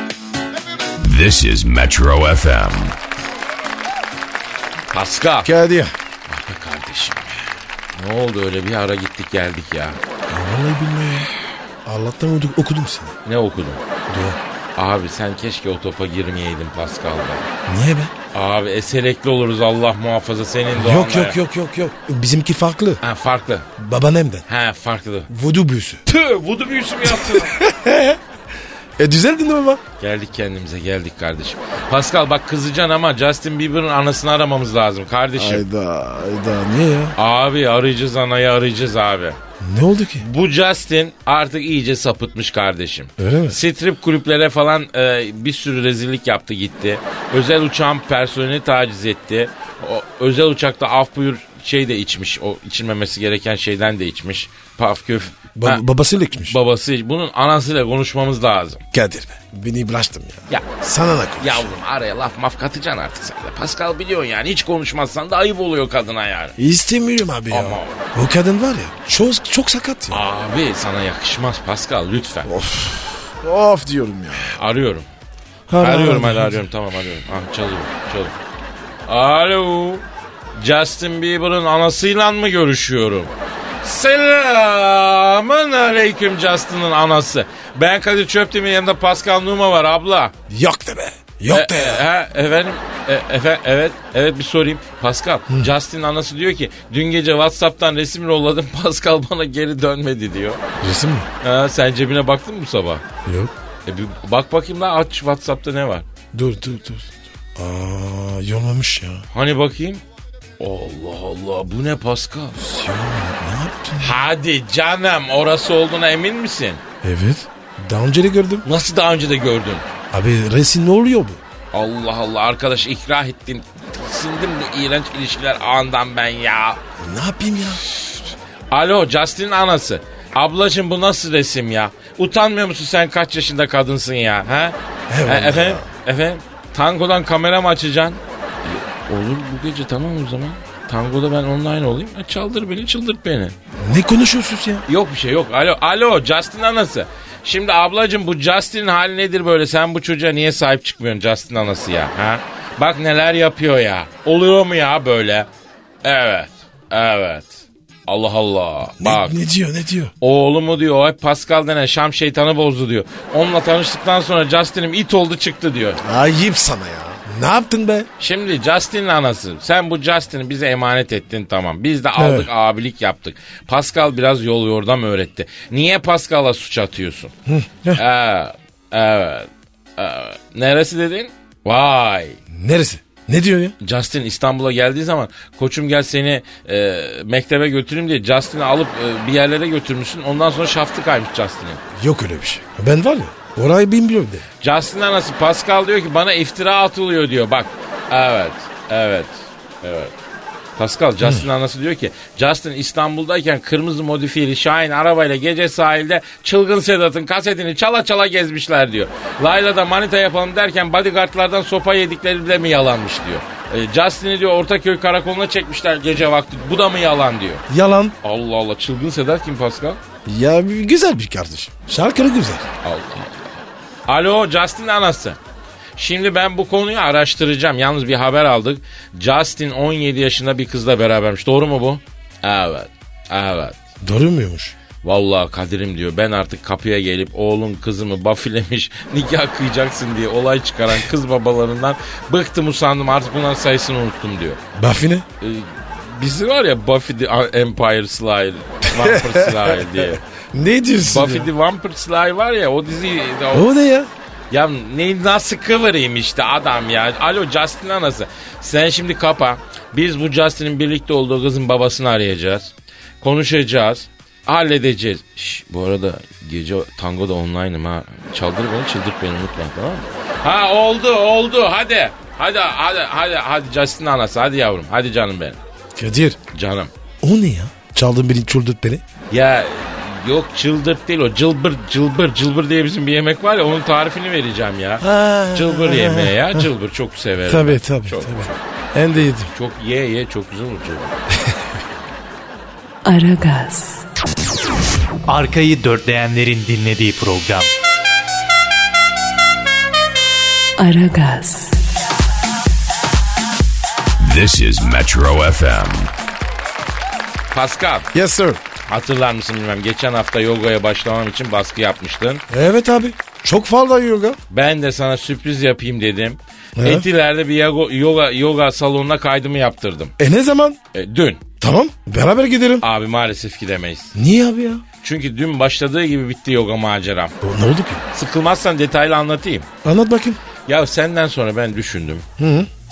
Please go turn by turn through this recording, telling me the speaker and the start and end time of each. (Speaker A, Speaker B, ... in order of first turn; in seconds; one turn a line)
Speaker A: 1.0-3.0
Speaker B: 4.9-5.5
Speaker C: 5.4-5.9
Speaker B: 6.3-7.4
Speaker B: 8.0-10.0
Speaker C: 10.3-11.3
Speaker C: 11.8-13.2
Speaker B: 13.2-13.8
Speaker C: 14.1-14.4
Speaker B: 14.8-17.5
Speaker C: 17.7-18.1
Speaker B: 18.3-21.4
Speaker C: 20.7-23.0
Speaker B: 23.0-23.7
Speaker C: 23.8-24.4
Speaker B: 24.5-25.3
Speaker C: 25.3-26.0
Speaker B: 26.1-27.6
Speaker C: 27.1-28.2
Speaker C: 29.0-29.8
Speaker B: 30.0-35.6
Speaker C: 35.4-37.1
Speaker B: 37.2-39.4
Speaker C: 39.6-40.2
Speaker B: 40.2-55.8
Speaker C: 43.2-43.6
Speaker C: 55.5-56.6
Speaker B: 56.4-58.8
Speaker C: 58.9-61.7
Speaker B: 61.4-66.5
Speaker C: 66.6-70.2
Speaker B: 67.5-68.0
Speaker B: 70.1-72.5
Speaker C: 72.4-74.6
Speaker B: 74.3-75.1
Speaker C: 75.7-76.6
Speaker B: 75.8-78.3
Speaker B: 79.1-80.0
Speaker B: 80.5-83.3
Speaker B: 83.8-90.3
Speaker C: 90.5-92.0
Speaker B: 91.5-100.6
Speaker C: 100.8-101.3
Speaker B: 101.4-103.0
Speaker C: 103.2-103.5
Speaker B: 103.8-106.0
Speaker C: 106.3-109.2
Speaker B: 109.3-110.0
Speaker B: 110.6-112.6
Speaker C: 112.6-114.1
Speaker B: 114.0-116.8
Speaker C: 117.0-118.6
Speaker B: 118.6-119.8
Speaker C: 120.1-121.4
Speaker B: 121.7-126.8
Speaker C: 127.0-127.8
Speaker B: 128.7-143.5
Speaker C: 135.1-135.8
Speaker C: 143.8-144.8
Speaker B: 144.9-155.5
Speaker B: 156.0-159.4
Speaker C: 159.0-160.1
Speaker B: 160.2-166.0
Speaker C: 166.0-168.1
Speaker B: 168.2-177.3
Speaker C: 172.2-172.5
Speaker C: 177.4-178.0
Speaker B: 177.9-182.4
Speaker C: 182.5-183.7
Speaker B: 183.8-191.8
Speaker C: 191.9-194.4
Speaker B: 194.6-200.1
Speaker B: 200.8-217.6
Speaker C: 217.7-218.1
Speaker B: 218.2-220.0
Speaker C: 220.2-222.7
Speaker B: 222.8-225.4
Speaker B: 226.0-233.8
Speaker C: 234.0-234.7
Speaker B: 235.0-244.6
Speaker C: 244.7-245.2
Speaker B: 245.4-250.2
Speaker C: 248.9-251.5
Speaker B: 251.0-253.7
Speaker C: 253.5-254.1
Speaker B: 254.5-275.6
Speaker C: 275.9-276.4
Speaker B: 276.5-276.9
Speaker C: 277.2-279.0
Speaker B: 279.3-288.6
Speaker C: 285.0-286.7
Speaker C: 287.4-289.5
Speaker B: 289.1-291.2
Speaker D: 293.0-294.0
Speaker E: 295.3-297.7
Speaker D: 300.8-301.8
Speaker A: 304.2-306.1
Speaker B: 307.5-308.1
Speaker C: 308.1-308.6
Speaker B: 308.9-312.4
Speaker C: 312.5-314.4
Speaker B: 314.5-320.1
Speaker C: 316.8-317.1
Speaker C: 320.2-320.8
Speaker B: 320.9-321.4
Speaker C: 321.6-322.8
Speaker B: 322.8-324.1
Speaker C: 324.1-324.8
Speaker B: 325.0-327.3
Speaker C: 327.4-328.0
Speaker B: 328.1-329.7
Speaker C: 329.8-330.4
Speaker B: 330.7-332.2
Speaker C: 332.4-332.7